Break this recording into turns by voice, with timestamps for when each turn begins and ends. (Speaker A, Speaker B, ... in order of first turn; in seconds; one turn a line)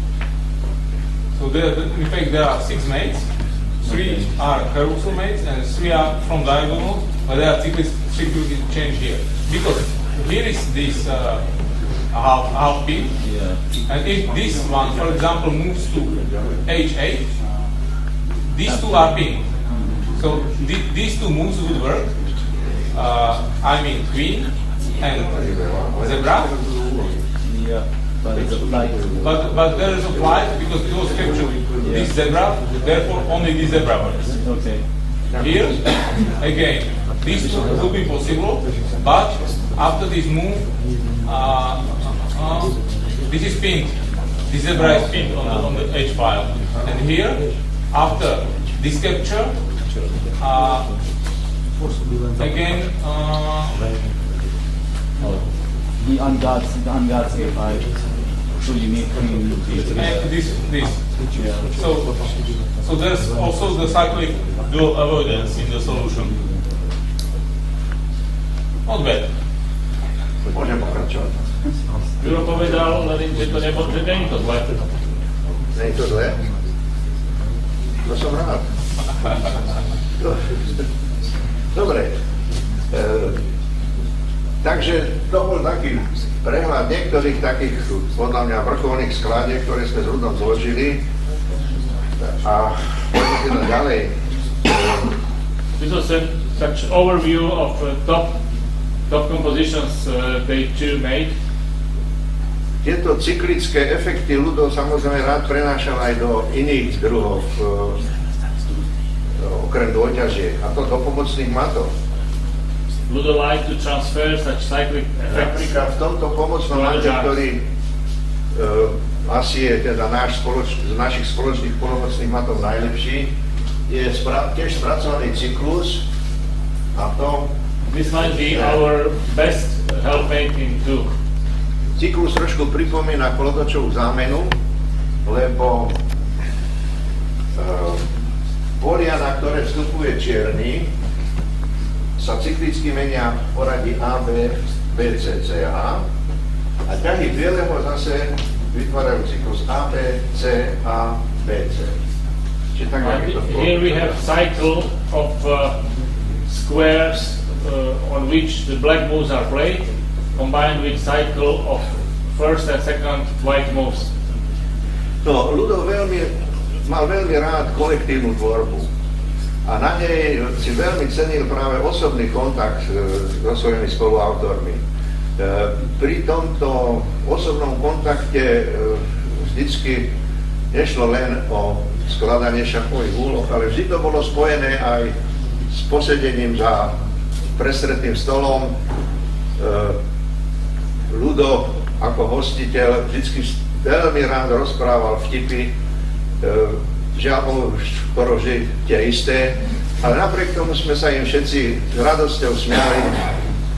Speaker A: 1.4-3.3
Speaker A: 3.8-11.5
Speaker B: 3.9-4.3
Speaker A: 12.1-13.1
Speaker B: 13.2-13.6
Speaker A: 13.8-17.2
Speaker A: 18.5-19.5
Speaker B: 18.7-19.2
Speaker B: 19.7-20.1
Speaker A: 20.1-22.1
Speaker A: 22.9-25.4
Speaker C: 25.2-27.2
Speaker A: 26.0-26.5
Speaker B: 27.4-29.4
Speaker C: 28.4-28.9
Speaker A: 29.1-34.4
Speaker B: 31.8-32.1
Speaker B: 34.4-34.8
Speaker A: 35.4-49.5
Speaker A: 50.4-50.9
Speaker A: 52.4-53.8
Speaker B: 56.0-57.9
Speaker B: 58.6-60.3
Speaker A: 60.0-61.0
Speaker B: 61.4-61.8
Speaker A: 61.7-62.2
Speaker A: 62.8-66.3
Speaker A: 68.9-69.3
Speaker C: 70.5-71.4
Speaker D: 72.2-74.8
Speaker C: 75.7-76.4
Speaker C: 78.0-78.7
Speaker C: 81.7-82.2
Speaker C: 82.9-83.4
Speaker C: 84.6-91.0
Speaker C: 92.2-95.1
Speaker D: 95.8-98.4
Speaker D: 99.1-101.3
Speaker C: 102.8-108.0
Speaker C: 109.4-111.9
Speaker D: 113.1-115.7
Speaker C: 115.3-117.6
Speaker D: 116.7-117.3
Speaker C: 118.5-123.3
Speaker C: 123.9-126.0
Speaker C: 127.0-127.5
Speaker D: 127.9-131.1
Speaker C: 128.4-128.8
Speaker C: 132.0-134.5
Speaker C: 135.2-135.9
Speaker C: 137.6-138.1
Speaker C: 138.8-140.9
Speaker C: 142.2-146.0
Speaker C: 146.9-151.9
Speaker C: 152.8-154.2
Speaker D: 153.0-155.8
Speaker D: 156.5-164.1
Speaker C: 165.2-168.9
Speaker C: 169.7-174.8
Speaker C: 175.4-180.1
Speaker C: 180.7-185.1
Speaker C: 185.7-187.0
Speaker C: 187.6-188.7
Speaker C: 189.6-190.0
Speaker C: 191.1-195.7
Speaker C: 196.4-203.2